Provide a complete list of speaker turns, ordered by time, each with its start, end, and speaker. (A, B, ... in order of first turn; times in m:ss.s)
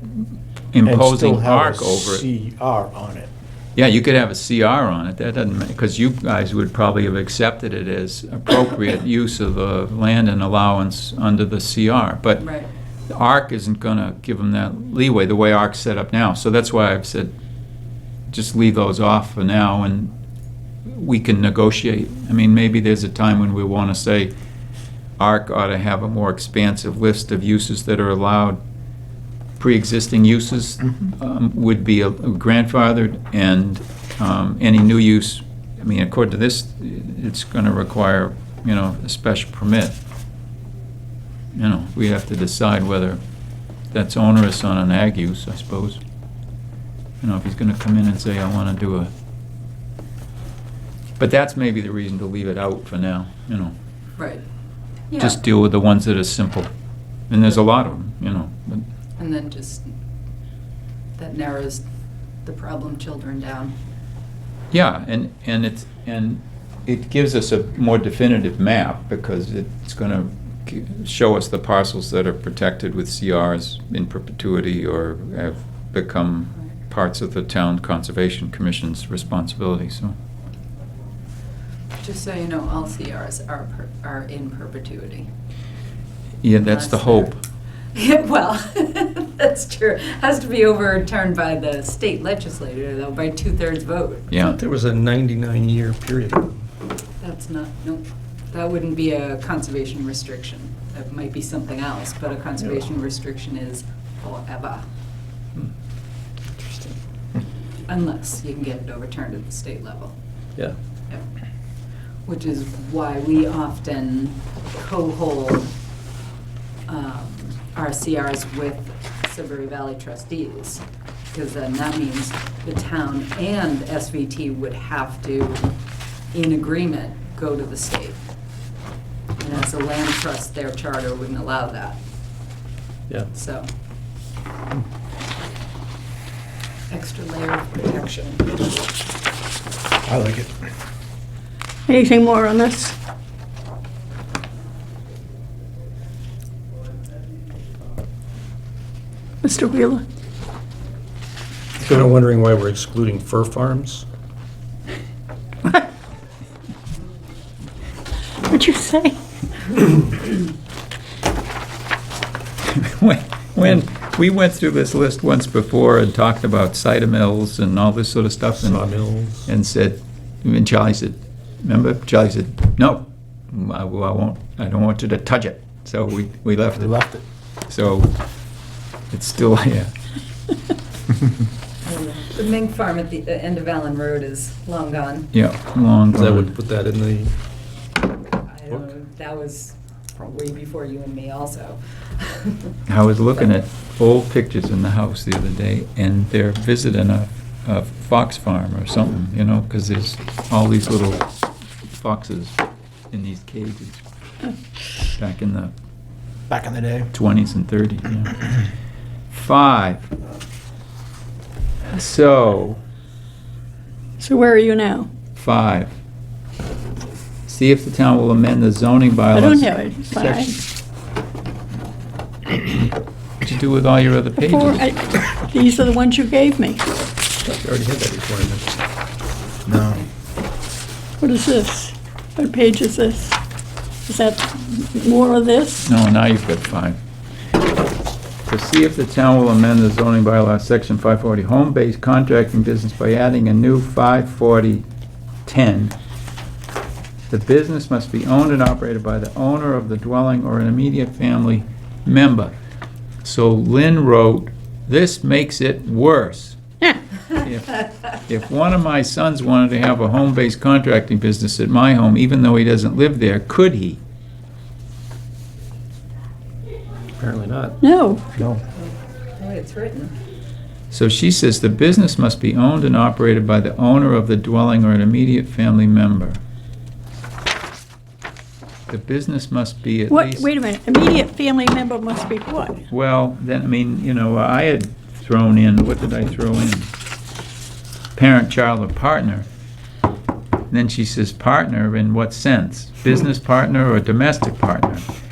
0:00.7-0:02.2 A
0:00.8-0:03.3 B
0:03.8-0:12.5 A
0:12.4-0:12.7 C
0:13.1-0:17.3 A
0:18.3-0:20.1 A
0:20.8-0:24.3 A
0:25.2-0:28.6 A
0:29.6-0:40.0 A
0:41.6-0:43.2 A
0:43.9-0:46.0 A
0:47.2-0:49.1 A
0:51.2-0:53.7 A
0:54.2-0:54.4 C
0:55.1-0:55.4 C
0:55.2-0:56.7 A
0:57.3-0:58.8 A
0:59.2-0:59.9 C
1:01.2-1:01.8 C
1:02.4-1:03.7 C
1:04.7-1:20.1 A
1:22.0-1:25.3 C
1:26.4-1:27.4 A
1:26.6-1:27.3 C
1:27.9-1:34.3 C
1:34.3-1:34.6 A
1:34.3-1:36.5 D
1:37.2-1:44.8 C
1:46.6-1:46.9 C
1:47.9-1:50.1 C
1:52.2-1:55.7 C
1:56.9-2:05.7 C
2:06.3-2:08.2 C
2:09.4-2:12.0 C
2:13.3-2:13.7 C
2:16.9-2:18.9 C
2:20.0-2:20.5 B
2:21.9-2:23.0 E
2:29.4-2:30.0 E
2:31.8-2:34.0 D
2:38.5-2:39.2 E
2:42.6-2:48.8 A
2:48.6-2:49.5 D
2:49.4-2:57.0 A
2:56.8-2:57.2 B
2:57.7-2:58.1 A
2:59.1-2:59.9 A
3:01.8-3:05.3 C
3:05.3-3:06.5 A
3:06.1-3:07.3 D
3:08.4-3:12.7 C
3:12.9-3:21.3 A
3:21.9-3:22.6 A
3:23.1-3:24.0 A
3:25.2-3:25.7 A
3:26.5-3:27.1 B
3:27.1-3:28.5 A
3:29.3-3:30.1 A
3:31.9-3:32.8 A
3:34.2-3:35.1 E
3:35.4-3:35.9 A
3:37.4-3:40.5 A
3:39.3-3:40.5 E
3:43.4-3:44.8 A
3:44.4-3:46.8 E
3:47.4-3:48.7 D
3:49.6-3:50.0 B
3:51.2-3:53.4 E
3:54.0-3:55.9 E
3:55.8-3:57.0 A
3:58.5-4:04.8 A
4:05.4-4:05.9 A
4:07.3-4:12.5 A
4:13.2-4:16.6 A
4:17.3-4:24.0 A
4:27.2-4:27.8 D
4:27.8-4:28.3 E
4:28.8-4:30.1 C
4:30.9-4:36.4 A
4:38.9-4:40.5 A
4:40.1-4:42.8 E
4:42.9-4:46.9 A
4:48.1-4:49.5 A
4:50.7-4:55.0 A